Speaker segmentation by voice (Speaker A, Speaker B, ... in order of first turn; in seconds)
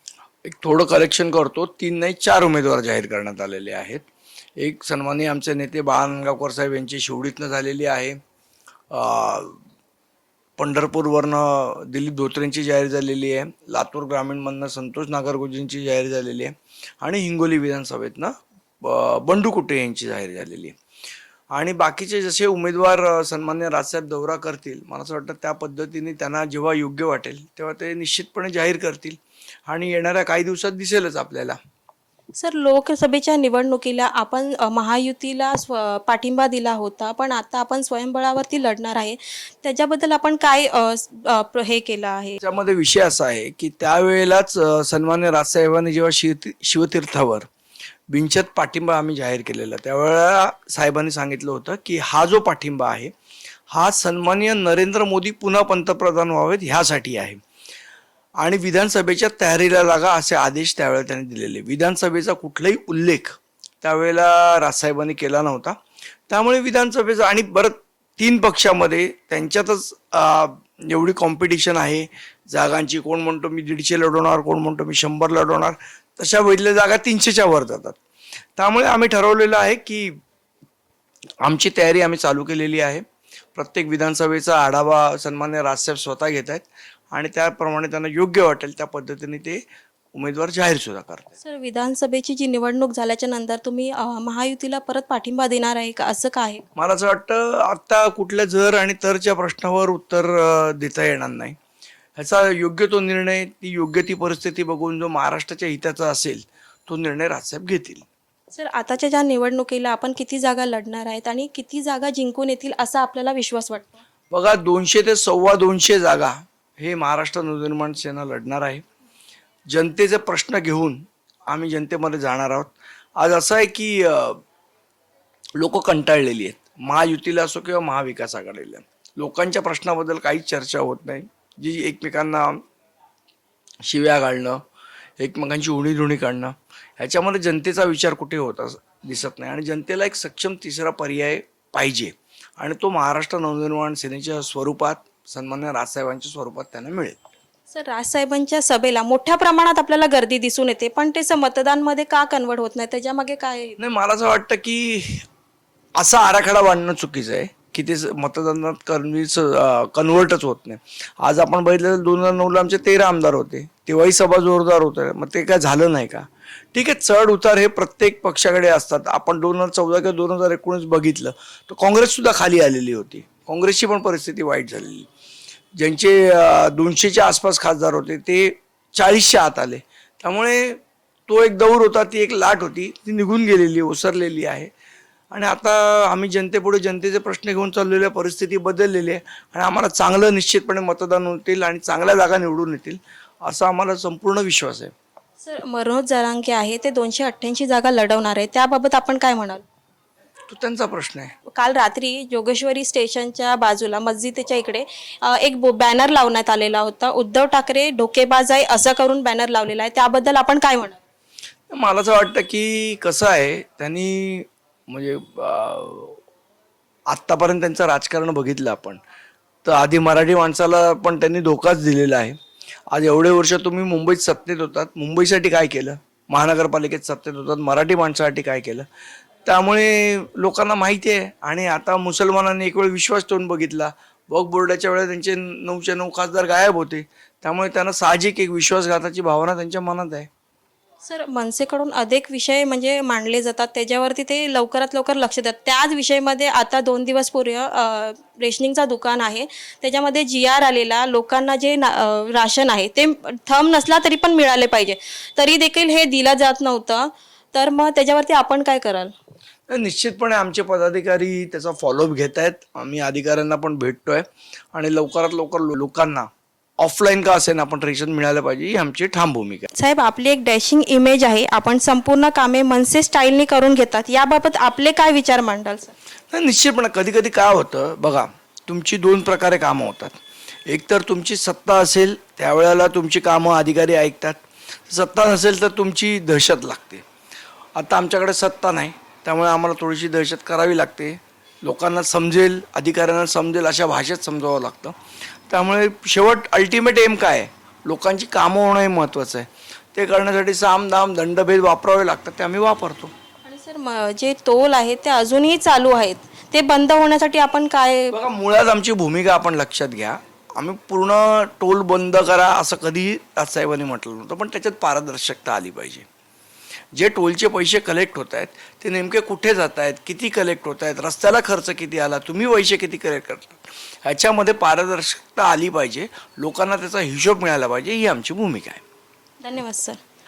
Speaker A: 0.4-4.0, 4.6-8.2, 8.9-9.6, 10.6-20.8, 21.5-31.6, 42.4-47.5, 48.1-53.1, 53.7-57.4, 58.4-65.8, 66.3-78.0, 78.6-80.2, 81.4-83.0, 83.5-89.6, 90.1-91.3, 96.8-101.6, 102.2-108.0, 114.3-118.8, 119.7-124.4, 125.6-132.6, 133.8-134.6, 135.2-147.2, 153.8-155.2, 155.9-175.1, 175.8-184.7, 185.3-194.9, 200.5-201.3, 211.7-216.2, 217.1-219.0, 219.6-222.4, 222.9-228.9, 229.4-240.3, 259.7-266.3, 266.8-269.7, 276.3-287.0, 287.8-295.0, 295.5-303.1, 308.1-316.1, 316.9-328.8
Speaker B: 32.3-42.4, 91.4-96.6, 108.5-114.0, 147.7-153.8, 195.4-199.6, 201.5-211.0, 241.0-259.1, 269.7-275.9, 303.4-308.1, 329.4-330.0